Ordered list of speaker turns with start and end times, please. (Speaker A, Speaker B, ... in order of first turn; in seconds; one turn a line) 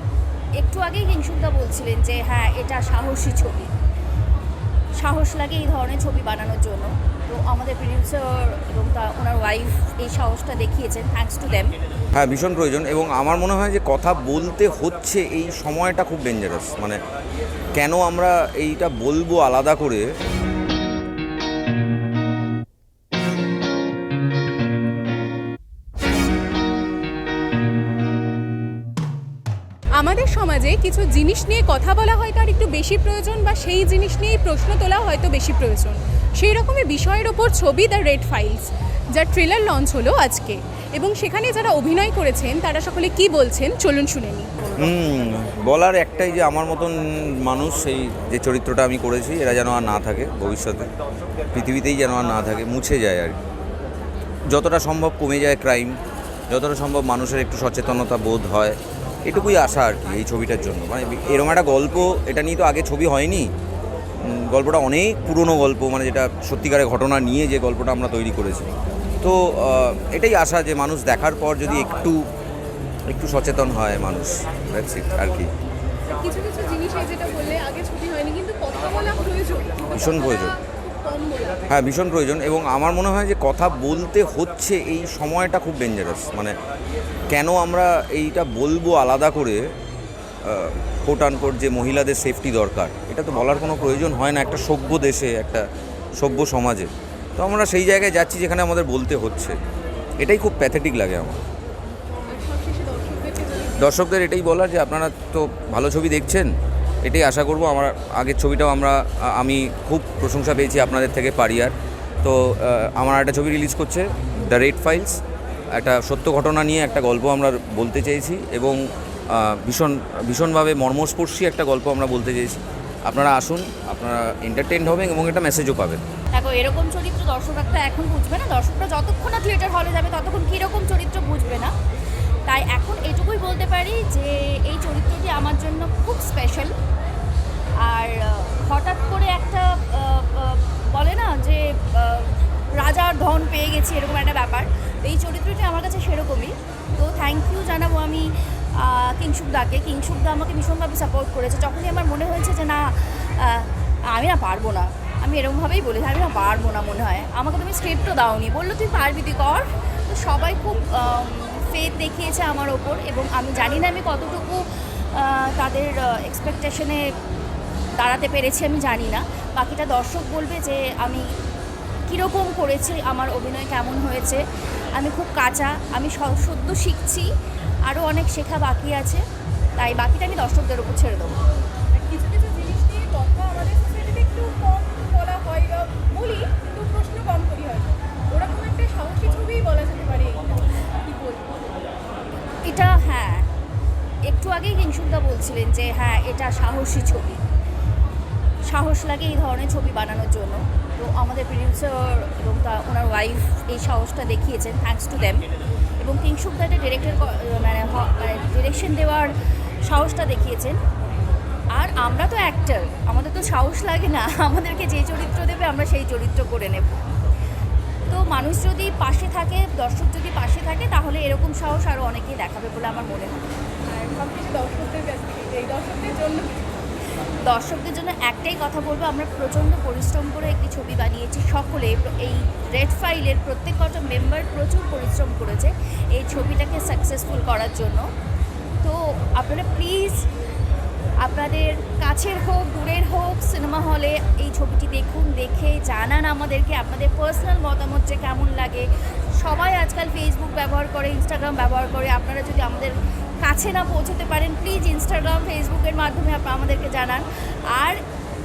Speaker A: 0.6-3.7
Speaker A: 5.0-11.7
Speaker B: 12.1-17.0
Speaker B: 17.7-20.1
Speaker C: 30.0-44.9
Speaker B: 44.8-50.9
Speaker B: 51.5-53.3
Speaker B: 54.5-56.0
Speaker B: 56.5-63.5
Speaker B: 64.2-68.7
Speaker B: 69.2-72.2
Speaker B: 73.1-75.5
Speaker C: 76.1-81.7
Speaker B: 79.9-80.5
Speaker B: 81.7-86.5
Speaker B: 87.3-89.6
Speaker B: 90.4-95.7
Speaker B: 96.2-99.6
Speaker B: 100.2-101.4
Speaker C: 102.3-104.0
Speaker B: 103.8-106.5
Speaker B: 107.0-115.2
Speaker B: 115.7-118.8
Speaker B: 119.3-126.0
Speaker A: 126.3-131.7
Speaker A: 132.5-136.7
Speaker A: 137.8-167.0
Speaker A: 168.0-171.3
Speaker A: 172.1-177.3
Speaker A: 177.8-179.2
Speaker A: 179.8-181.4
Speaker C: 181.9-191.8
Speaker A: 192.6-193.5
Speaker A: 194.2-197.4
Speaker A: 198.7-205.4
Speaker A: 206.0-210.8
Speaker A: 211.7-217.1
Speaker A: 218.1-223.4
Speaker C: 223.9-226.9
Speaker A: 227.4-238.1
Speaker A: 238.8-240.2
Speaker A: 241.2-258.0